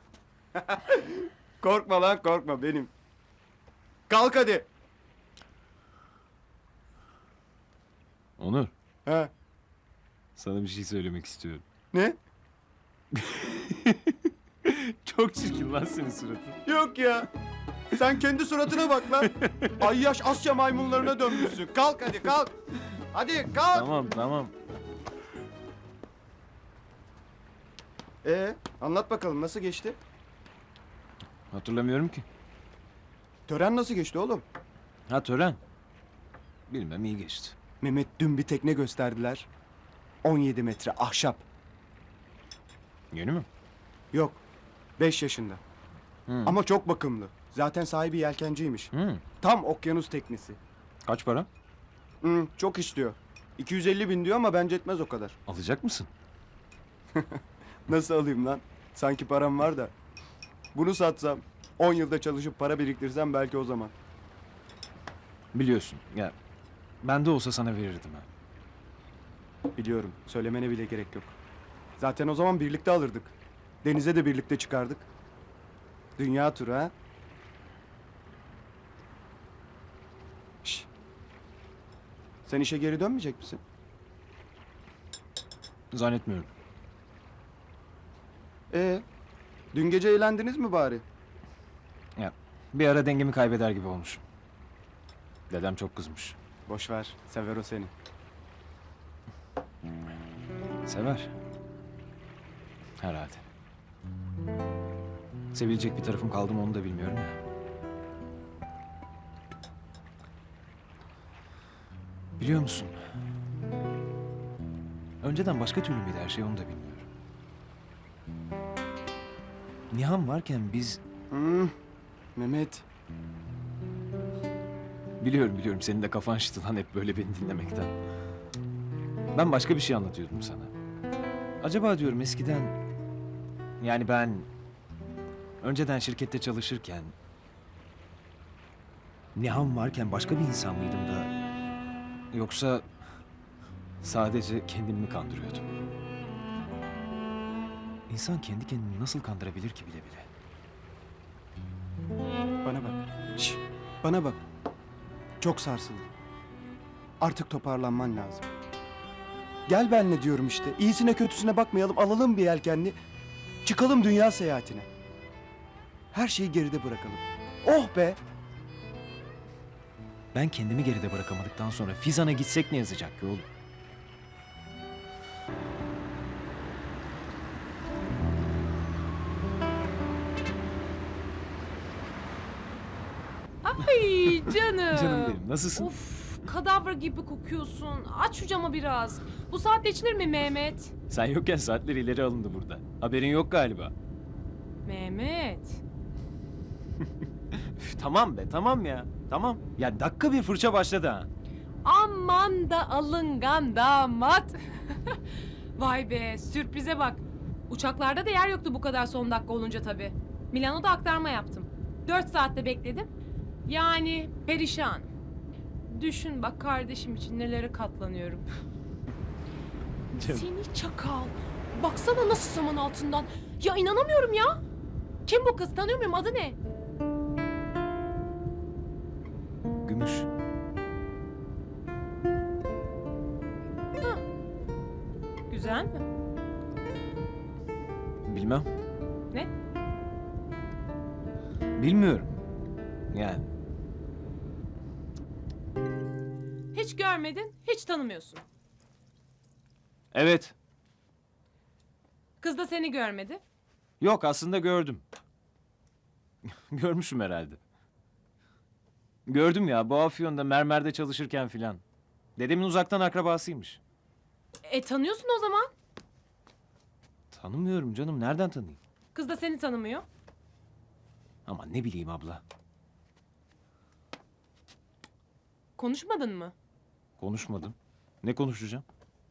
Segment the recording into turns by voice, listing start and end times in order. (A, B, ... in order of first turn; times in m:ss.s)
0:00.5-0:02.9 A
0:04.1-0:04.7 A
0:08.4-0:08.7 B
0:10.4-0:11.6 B
0:11.9-0:12.2 A
0:13.1-0:16.6 B
0:16.6-0:17.3 A
0:17.9-0:22.5 A
0:19.2-0:19.7 B
0:23.1-0:23.9 A
0:23.7-0:24.5 B
0:28.2-0:30.0 A
0:31.5-0:32.2 B
0:33.5-0:34.4 A
0:35.1-0:35.6 B
0:36.7-0:37.6 B
0:37.8-0:39.5 A
0:40.2-0:41.4 A
0:43.1-0:43.5 B
0:44.1-0:44.4 A
0:45.0-0:45.6 A
0:46.3-0:46.6 B
0:46.4-0:50.6 A
0:48.9-0:49.2 B
0:51.0-0:51.5 B
0:52.2-0:55.4 A
0:55.5-0:56.1 B
0:57.9-0:59.9 A
1:00.7-1:03.9 A
1:05.5-1:06.3 B
1:07.0-1:08.2 B
1:09.8-1:11.4 A
1:12.0-1:15.1 A
1:16.2-1:16.9 A
1:22.4-1:23.6 A
1:25.9-1:26.5 B
1:28.7-1:29.0 A
1:29.7-1:31.0 A
1:32.2-1:34.2 B
1:35.5-1:36.4 B
1:36.7-1:37.9 A
1:40.8-1:41.3 B
1:43.0-1:43.4 B
1:45.5-1:47.4 B
1:52.4-1:53.0 B
1:55.2-1:57.1 B
1:59.9-2:01.0 B
2:01.3-2:01.7 A
2:02.4-2:02.8 A
2:05.2-2:07.9 B
2:09.3-2:10.7 B
2:11.6-2:12.7 B
2:13.8-2:14.5 B
2:15.6-2:17.1 B
2:19.4-2:21.3 B
2:22.3-2:22.9 B
2:24.0-2:25.7 B
2:28.1-2:30.3 B
2:32.6-2:34.4 A
2:35.4-2:36.1 A
2:37.2-2:38.5 A
2:39.7-2:43.0 A
2:43.6-2:44.9 A
2:46.1-2:48.2 A
2:50.3-2:53.4 B
3:03.6-3:10.9 C
3:04.9-3:05.9 B
3:11.1-3:13.9 B
3:14.8-3:15.8 C
3:17.8-3:21.3 B
3:21.8-3:25.2 C
3:25.8-3:33.1 C
3:33.6-3:35.1 C
3:35.9-3:38.4 C
3:40.1-3:40.4 B
3:40.2-3:44.6 C
3:45.2-3:46.6 C
3:49.8-3:50.3 B
3:55.5-3:56.0 C
3:58.2-3:58.7 B
4:01.8-4:02.3 B
4:03.1-4:03.4 B
4:06.7-4:08.4 C
4:10.1-4:10.5 B
4:12.4-4:13.4 C
4:14.0-4:15.0 B
4:16.4-4:17.6 B
4:19.2-4:21.8 B
4:22.4-4:23.8 B
4:24.6-4:25.7 C
4:27.3-4:28.8 B
4:29.1-4:30.0 C
4:31.4-4:32.4 B
4:35.8-4:36.5 C
4:37.2-4:38.8 B